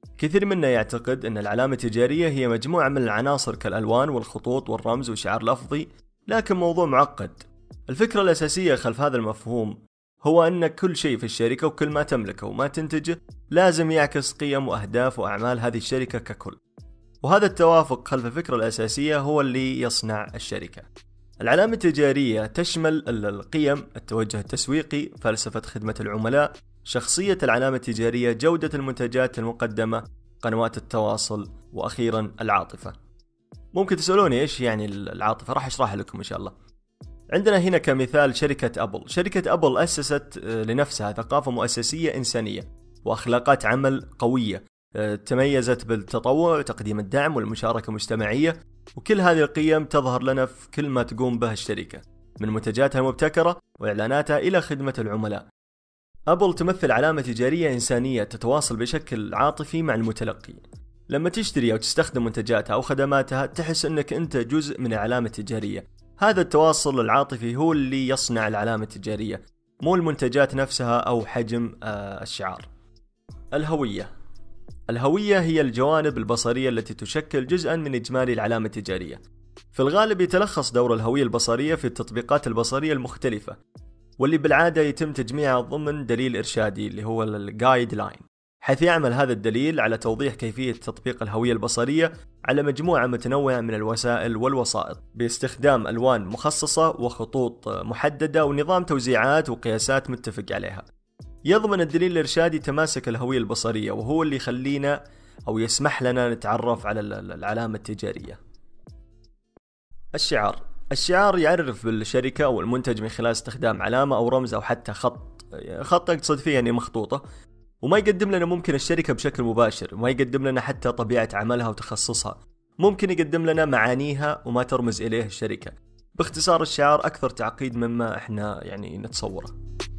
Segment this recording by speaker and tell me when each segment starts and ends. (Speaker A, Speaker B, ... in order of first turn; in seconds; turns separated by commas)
Speaker A: 0.2-16.6, Speaker A: 17.2-20.9, Speaker A: 21.4-33.0, Speaker A: 33.7-36.5, Speaker A: 37.3-55.5, Speaker A: 56.3-72.7, Speaker A: 73.5-74.1, Speaker A: 74.9-79.2, Speaker A: 79.7-83.6, Speaker A: 84.2-100.8, Speaker A: 101.5-108.4, Speaker A: 110.1-117.2, Speaker A: 117.8-129.5